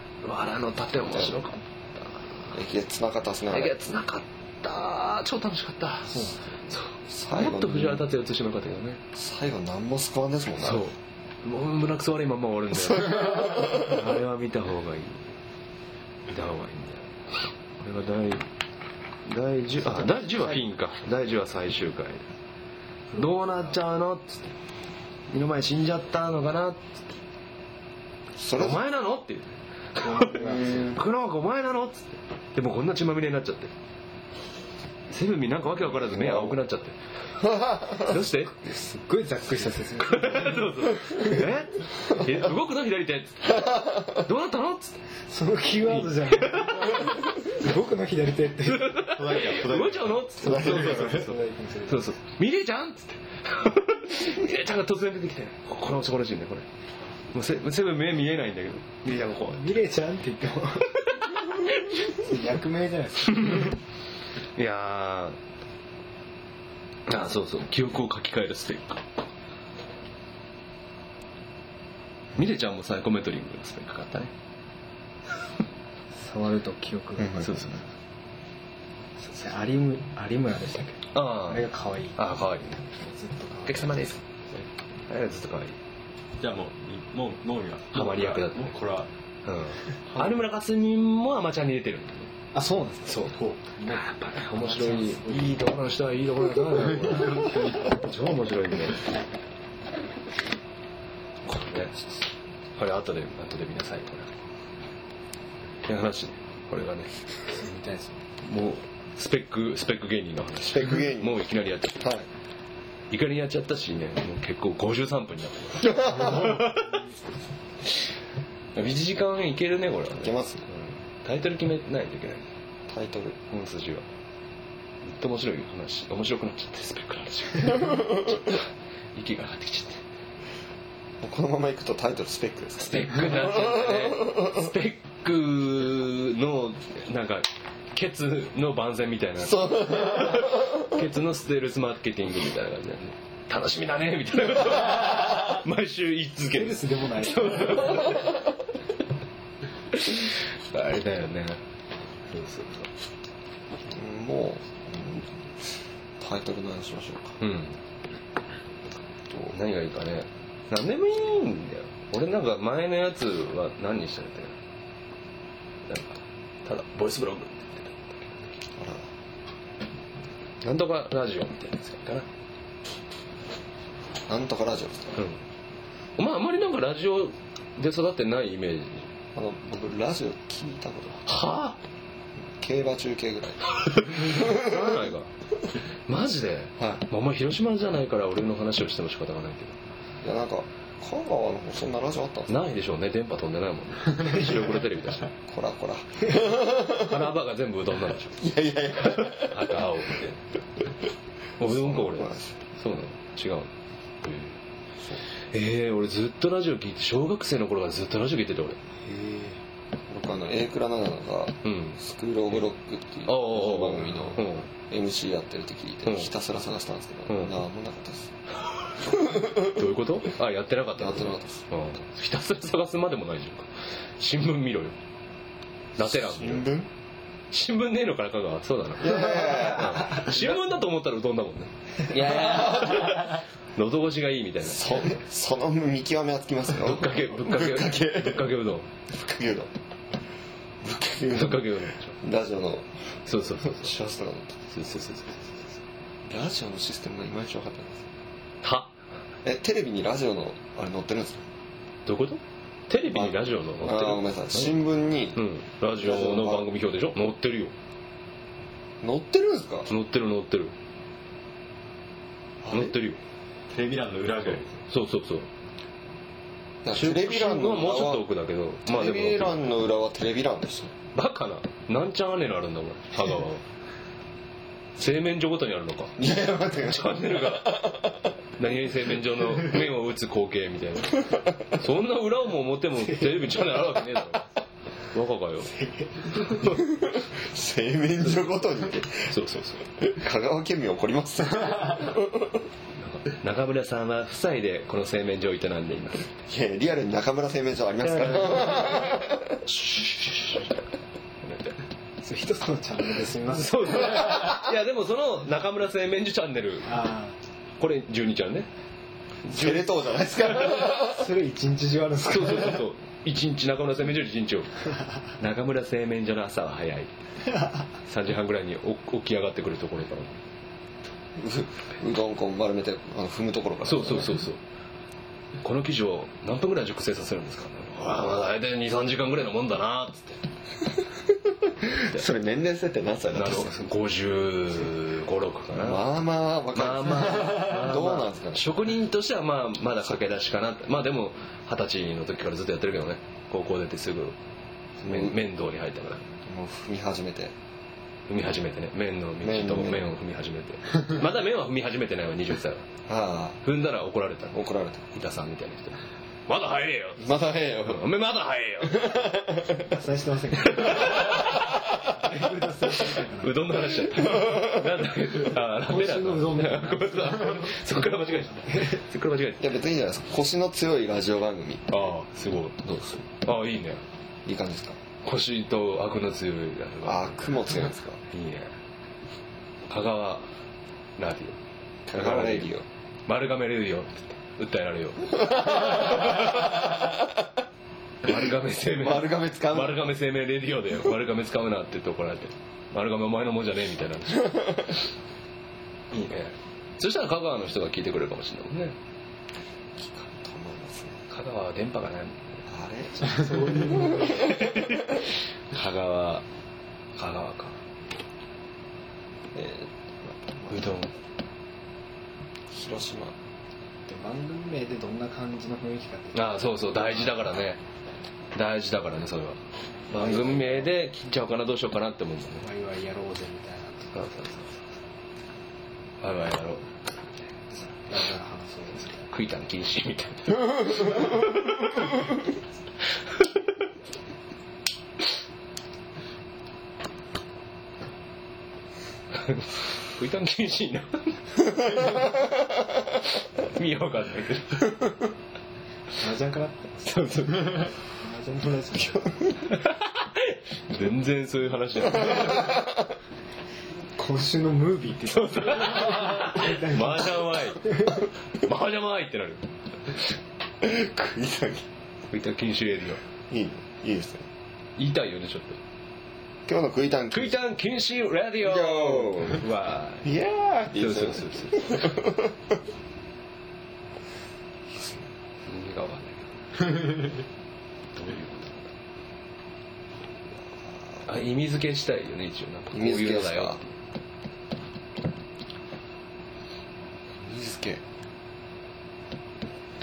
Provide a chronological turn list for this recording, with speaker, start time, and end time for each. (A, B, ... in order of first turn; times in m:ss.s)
0:00.2-0:02.6 A
0:02.5-0:03.7 B
0:03.5-0:09.0 A
0:06.1-0:06.6 C
0:07.1-0:08.0 B
0:09.1-0:10.9 B
0:10.6-0:15.3 A
0:13.1-0:13.7 B
0:16.3-0:18.4 A
0:19.2-0:22.2 A
0:19.8-0:20.6 C
0:23.1-0:23.8 C
0:23.2-0:24.5 A
0:25.3-0:27.0 A
0:28.4-0:28.8 B
0:28.5-0:33.7 A
0:30.0-0:31.0 C
0:30.4-0:30.9 B
0:35.1-0:37.0 A
0:35.8-0:36.6 B
0:37.4-0:38.1 B
0:38.0-0:38.6 A
0:38.6-0:41.4 C
0:40.0-0:45.0 A
0:43.7-0:44.0 B
0:45.3-0:49.1 C
0:45.8-0:47.1 A
0:48.6-0:56.6 A
0:49.1-0:51.2 D
0:50.4-0:52.1 C
0:57.3-0:59.7 A
0:59.5-1:01.1 C
1:01.6-1:02.0 A
1:02.1-1:03.7 C
1:03.2-1:03.7 A
1:04.5-1:05.4 A
1:07.1-1:09.0 A
1:12.3-1:14.3 A
1:16.1-1:17.7 C
1:17.4-1:17.8 A
1:19.2-1:24.2 C
1:21.1-1:22.8 A
1:23.6-1:24.2 A
1:25.1-1:25.8 A
1:26.4-1:29.1 D
1:27.9-1:28.8 A
1:29.4-1:32.3 A
1:30.1-1:30.4 D
1:32.5-1:34.0 C
1:33.1-1:39.0 A
1:34.5-1:35.7 C
1:41.4-1:42.0 A
1:42.8-1:44.3 A
1:45.8-1:47.1 A
1:47.5-1:48.2 C
1:48.4-1:52.1 A
1:50.6-1:51.4 B
1:52.0-1:52.3 B
1:53.1-1:56.8 A
1:55.8-1:56.6 B
1:58.7-2:02.5 A
2:00.2-2:00.7 B
2:02.9-2:03.4 B
2:03.5-2:04.0 A
2:05.0-2:10.0 A
2:11.2-2:14.6 B
2:12.8-2:28.4 A
2:19.4-2:20.9 B
2:26.5-2:28.2 C
2:29.9-2:31.6 A
2:32.3-2:32.9 A
2:33.8-2:37.4 B
2:37.4-2:37.8 A
2:39.5-2:44.5 A
2:45.8-2:48.6 A
2:48.8-2:49.1 B
2:50.6-2:52.3 A
2:54.3-2:55.2 B
2:56.2-2:59.1 A
2:59.3-3:01.2 B
3:01.2-3:01.8 A
3:02.4-3:05.0 B
3:04.1-3:05.3 A
3:06.1-3:09.8 A
3:10.2-3:12.5 B
3:12.5-3:15.3 A
3:15.4-3:17.1 B
3:16.7-3:20.4 A
3:18.4-3:19.7 B
3:21.6-3:23.7 A
3:21.6-3:22.5 B
3:24.2-3:24.6 A
3:25.0-3:25.2 B
3:25.5-3:28.8 A
3:30.1-3:38.3 B
3:31.6-3:32.0 A
3:33.2-3:34.7 A
3:36.0-3:36.3 A
3:37.3-3:37.6 A
3:39.0-3:39.7 B
3:39.5-3:45.0 A
3:41.0-3:41.6 B
3:46.0-3:46.6 A
3:46.0-3:46.9 B
3:47.5-3:55.0 A
3:49.0-3:50.4 B
3:52.1-3:53.2 B
3:54.6-3:58.5 B
3:56.8-3:58.9 A
3:59.1-3:59.7 B
4:00.8-4:03.2 B
4:01.3-4:02.2 A
4:03.2-4:03.9 A
4:03.7-4:04.6 B
4:04.7-4:05.7 A
4:06.2-4:08.1 B
4:08.6-4:08.9 A
4:09.4-4:11.4 B
4:12.0-4:14.8 A
4:13.1-4:16.7 B
4:15.4-4:17.7 A
4:19.0-4:19.9 B
4:19.9-4:20.7 A
4:22.6-4:22.9 B
4:22.7-4:23.2 A
4:23.7-4:24.7 D
4:24.9-4:25.5 A
4:26.8-4:28.3 B
4:26.9-4:29.6 A
4:28.8-4:31.0 B
4:31.1-4:33.6 A
4:35.0-4:36.2 A
4:36.2-4:38.2 B
4:36.8-4:38.0 A
4:38.6-4:44.5 A
4:45.1-4:47.0 A
4:45.8-4:46.1 C
4:46.7-4:49.3 B
4:48.2-4:48.5 A
4:49.2-4:49.9 A
4:50.0-4:52.6 B
4:52.9-4:56.3 A
4:56.5-4:59.6 B
4:58.0-5:00.7 A
5:01.4-5:01.8 A
5:02.2-5:04.3 C
5:03.4-5:07.0 A
5:06.9-5:07.4 C
5:07.8-5:08.7 A
5:09.5-5:09.9 A
5:09.5-5:11.3 B
5:10.6-5:10.8 A
5:10.9-5:12.8 C
5:12.2-5:14.8 A
5:15.4-5:17.2 A
5:18.0-5:20.4 A
5:21.4-5:24.4 B
5:23.8-5:24.6 A
5:25.6-5:30.4 A
5:31.8-5:33.8 B
5:33.3-5:36.1 A
5:35.7-5:38.6 B
5:36.7-5:44.4 A
5:45.0-5:45.4 B
5:45.0-5:46.3 A
5:46.4-5:47.5 B
5:48.3-5:52.9 A
5:49.4-5:50.1 B
5:53.1-5:53.6 B
5:53.6-5:59.6 A
5:54.5-5:55.1 B
5:57.2-5:58.0 B
5:58.9-5:59.8 B
5:59.9-6:03.7 C
6:00.5-6:02.0 A
6:03.3-6:09.8 A
6:05.7-6:07.8 C
6:08.5-6:09.0 C
6:09.6-6:12.0 B
6:11.9-6:14.0 A
6:12.8-6:13.2 B
6:14.4-6:15.0 B
6:15.2-6:17.7 A
6:17.0-6:18.2 B
6:18.3-6:18.7 A
6:19.9-6:20.5 A
6:21.2-6:21.6 A
6:22.1-6:22.8 B
6:22.1-6:22.7 A
6:23.3-6:26.9 A
6:28.2-6:35.0 A
6:29.0-6:30.0 B
6:36.1-6:39.0 A
6:40.0-6:41.2 B
6:41.3-6:42.6 A
6:42.7-6:44.8 B
6:43.2-6:44.5 C
6:44.2-6:46.4 A
6:47.1-6:47.8 A
6:49.5-6:51.0 B
6:50.7-6:51.1 A
6:52.7-6:53.4 B
6:54.0-6:56.6 C
6:56.3-6:57.8 A
6:58.5-7:02.6 A
7:00.1-7:00.9 C
7:02.6-7:04.3 C
7:04.1-7:04.8 A
7:06.2-7:06.9 A
7:07.7-7:09.3 C
7:09.2-7:11.9 A
7:19.3-7:22.2 A
7:23.6-7:25.2 A
7:26.2-7:29.5 C
7:27.0-7:27.9 A
7:29.6-7:32.8 A
7:34.2-7:38.2 C
7:35.3-7:40.3 A
7:40.8-7:41.9 B
7:42.3-7:43.2 A
7:43.5-7:44.5 B
7:45.0-7:45.8 A
7:46.6-7:47.6 B
7:47.3-7:50.4 A
7:48.6-7:49.6 B
7:50.2-7:52.5 B
7:50.9-7:52.3 A
7:54.9-7:55.3 B
7:55.6-7:57.2 A
7:58.1-7:58.9 A
8:00.5-8:01.3 B
8:01.2-8:03.9 A
8:02.9-8:03.8 B
8:07.4-8:08.0 B